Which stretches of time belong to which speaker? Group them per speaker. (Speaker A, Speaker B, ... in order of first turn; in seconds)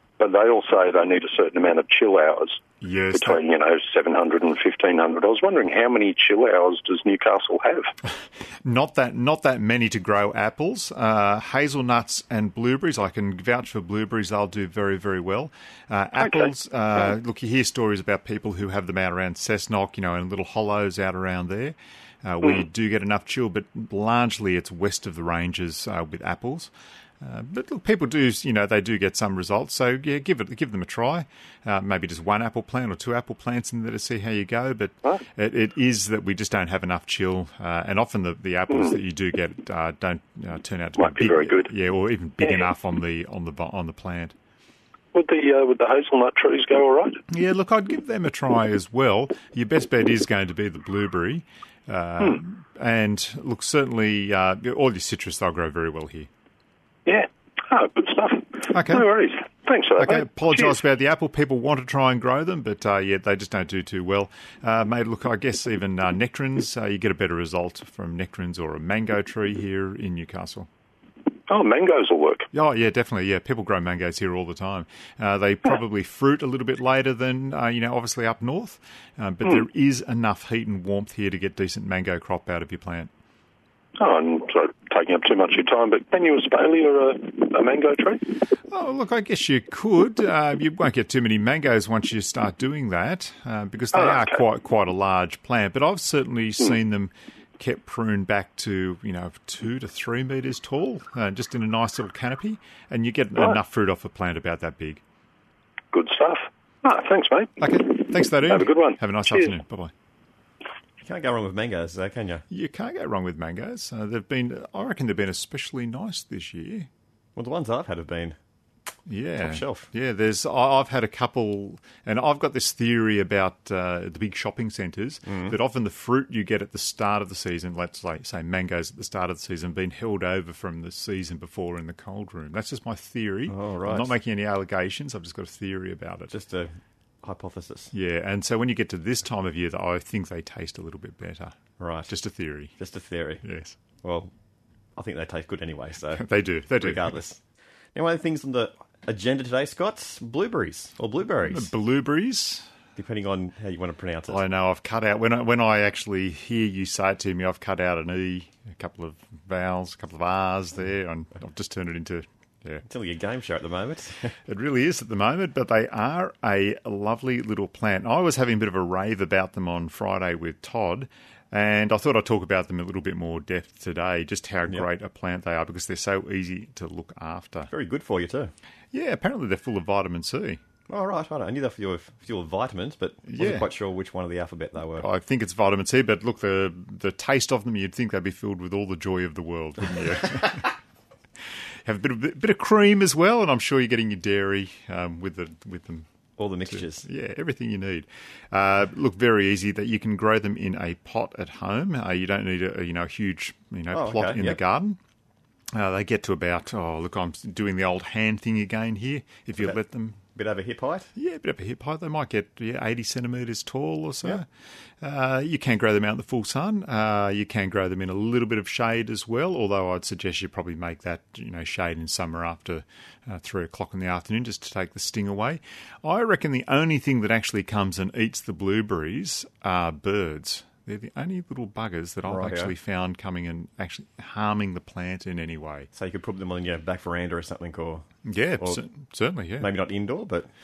Speaker A: 0.2-2.6, 3.1-7.9, 16.2-16.5, 41.0-41.7, 42.4-42.7, 45.1-47.2, 57.1-60.8, 71.5-72.5, 84.0-88.2, 93.9-94.4, 105.9-109.6
Speaker B: 2.8-3.4, 8.6-44.4, 47.3-56.3, 58.7-59.1, 60.0-70.7, 72.5-83.1, 88.7-105.0, 107.6-109.9, 112.5-116.9, 119.1-136.3, 137.9-141.6, 142.1-142.7, 143.4-143.8, 146.1-147.1, 151.5-152.7, 154.3-162.8, 164.5-177.7, 178.9-180.6, 183.3-183.7, 185.0-190.7, 191.8-196.1, 196.7-205.0, 205.7-210.2, 211.2-214.5, 215.0-235.9, 238.2-239.7
Speaker C: 111.0-112.5, 117.4-118.4, 119.4-119.9, 125.3-125.6, 133.5-134.1, 136.3-137.9, 141.8-142.1, 142.8-143.4, 144.0-144.3, 145.0-147.4, 147.9-151.7, 153.0-154.4, 162.8-164.4, 177.7-178.5, 180.9-185.1, 196.4-197.1, 203.9-204.6, 210.3-211.1, 232.3-232.7, 235.9-238.1, 239.6-240.5